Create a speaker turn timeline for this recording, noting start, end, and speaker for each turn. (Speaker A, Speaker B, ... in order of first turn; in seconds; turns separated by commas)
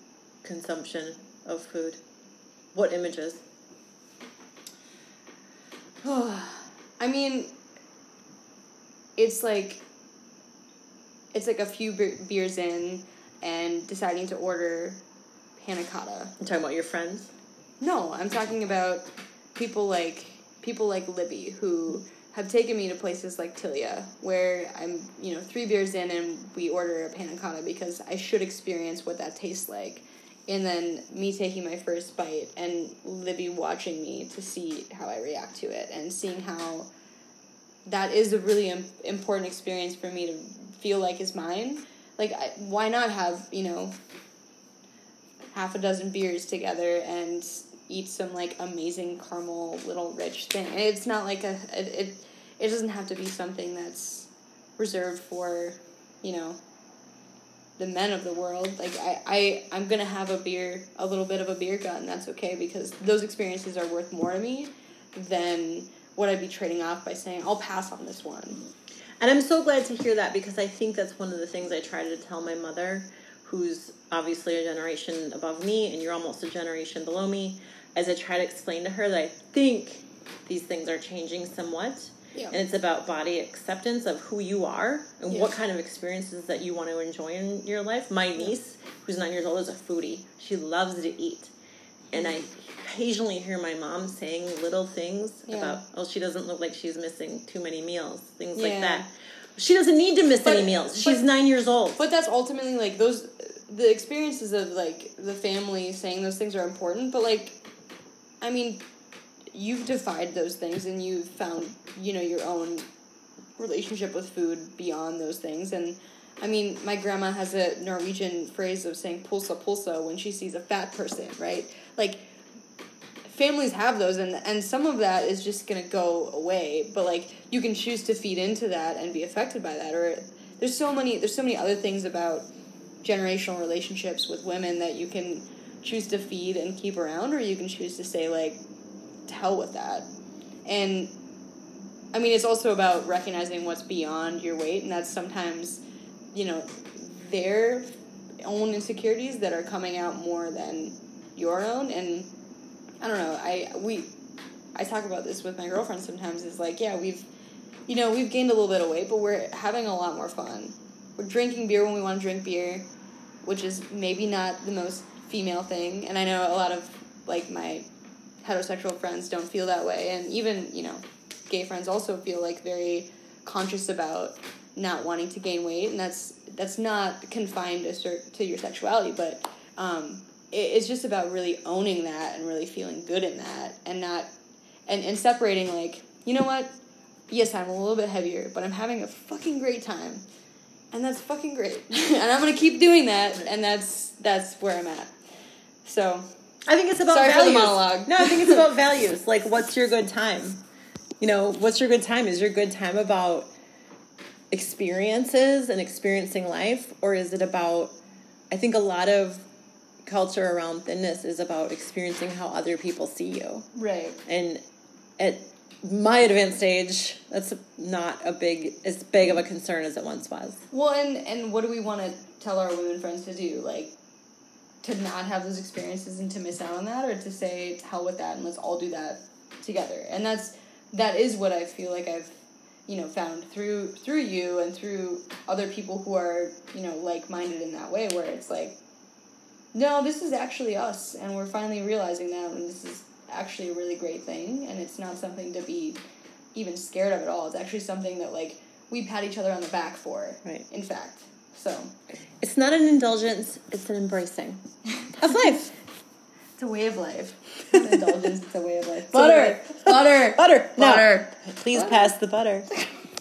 Speaker A: 0.4-2.0, Speaker A: 2.7-3.4, Speaker B: 6.0-7.5, Speaker B: 9.2-9.8, Speaker B: 11.3-15.0, Speaker B: 15.6-16.3, Speaker A: 16.4-17.3, Speaker B: 17.8-36.9, Speaker B: 37.9-43.9, Speaker B: 45.5-56.6, Speaker B: 57.8-68.6, Speaker A: 69.2-91.5, Speaker A: 92.1-102.0, Speaker B: 95.5-95.8, Speaker B: 98.5-99.0, Speaker B: 100.4-101.2, Speaker B: 102.0-107.6, Speaker B: 108.4-108.8, Speaker B: 109.5-112.9, Speaker B: 113.6-122.2, Speaker B: 123.2-132.5, Speaker B: 133.0-138.6, Speaker B: 139.2-140.1, Speaker B: 140.7-141.1, Speaker B: 142.1-145.8, Speaker B: 146.3-152.3, Speaker B: 153.0-154.1, Speaker B: 154.7-157.3, Speaker B: 157.9-162.8, Speaker B: 163.4-167.8, Speaker B: 168.4-184.3, Speaker B: 184.9-186.7, Speaker B: 187.3-190.2, Speaker B: 190.9-195.1, Speaker B: 195.8-196.2, Speaker A: 196.7-200.6, Speaker B: 197.1-198.7, Speaker A: 201.2-203.5, Speaker A: 204.5-207.9, Speaker A: 208.5-209.4, Speaker A: 210.0-213.7, Speaker B: 213.7-214.2, Speaker A: 214.2-214.6, Speaker A: 215.2-220.6, Speaker B: 220.7-223.9, Speaker B: 224.8-238.8, Speaker B: 239.7-246.0, Speaker B: 246.5-251.9, Speaker A: 252.4-254.6, Speaker B: 254.9-255.6, Speaker A: 255.2-255.7, Speaker B: 256.6-262.1, Speaker A: 257.7-258.0, Speaker A: 259.1-262.7